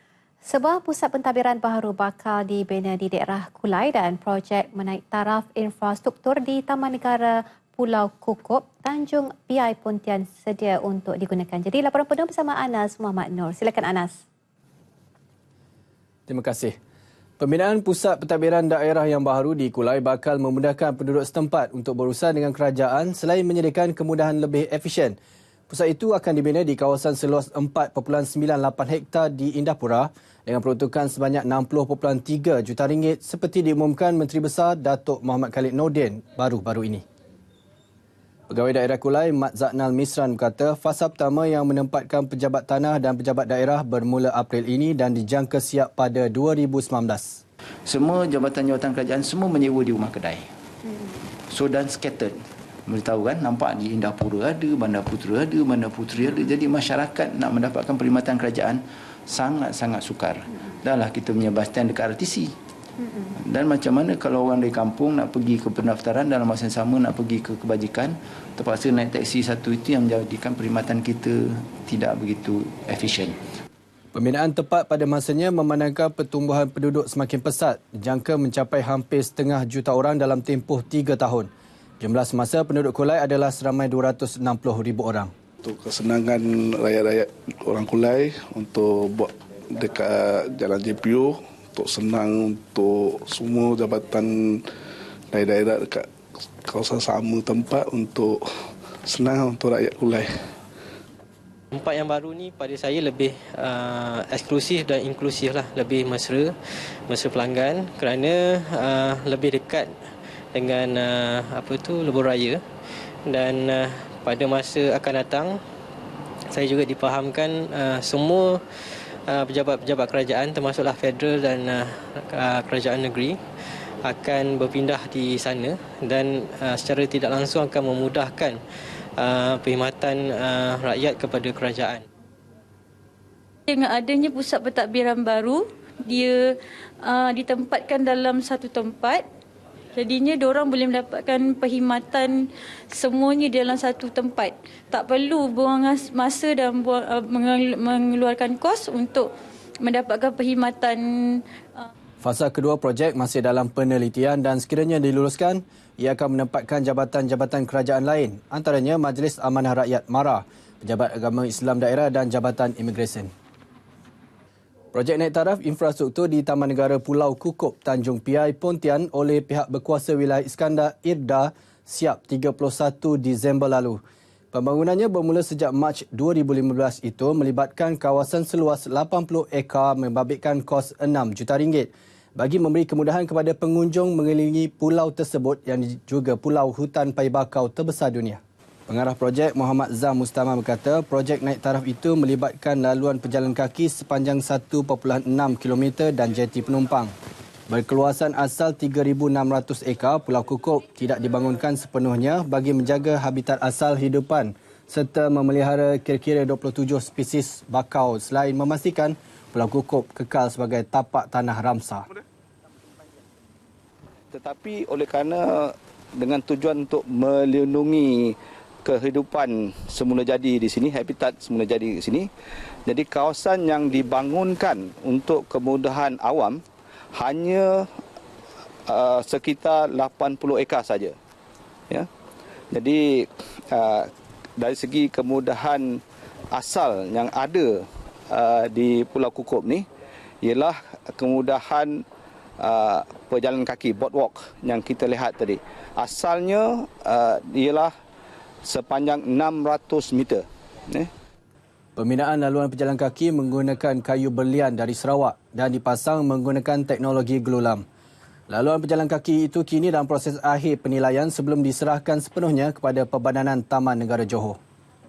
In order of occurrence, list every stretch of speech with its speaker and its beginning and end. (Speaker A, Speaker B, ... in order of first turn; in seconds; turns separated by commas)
Speaker A: 0.4-14.2, Speaker B: 16.3-16.7, Speaker B: 17.4-25.2, Speaker B: 25.7-37.0, Speaker B: 38.5-47.4, Speaker C: 47.8-50.5, Speaker C: 51.5-62.5, Speaker C: 63.4-73.4, Speaker B: 74.1-81.5, Speaker B: 82.0-85.3, Speaker D: 85.6-94.7, Speaker D: 95.3-96.1, Speaker D: 96.7-98.4, Speaker D: 99.0-100.5, Speaker E: 101.7-106.5, Speaker E: 107.1-109.9, Speaker E: 110.5-112.6, Speaker E: 113.3-115.6, Speaker E: 116.5-118.6, Speaker E: 119.3-123.4, Speaker E: 124.0-128.6, Speaker E: 129.2-132.0, Speaker F: 133.7-136.5, Speaker F: 137.0-139.2, Speaker F: 139.9-151.8, Speaker B: 152.2-163.3, Speaker B: 164.9-174.0, Speaker B: 174.5-197.1, Speaker B: 197.7-212.1, Speaker G: 214.3-222.3, Speaker G: 222.8-226.6, Speaker G: 227.1-227.9, Speaker G: 228.8-231.2, Speaker G: 232.7-239.9, Speaker G: 240.4-242.0, Speaker G: 242.6-247.9, Speaker G: 248.6-251.1, Speaker B: 251.9-257.8, Speaker B: 258.5-264.6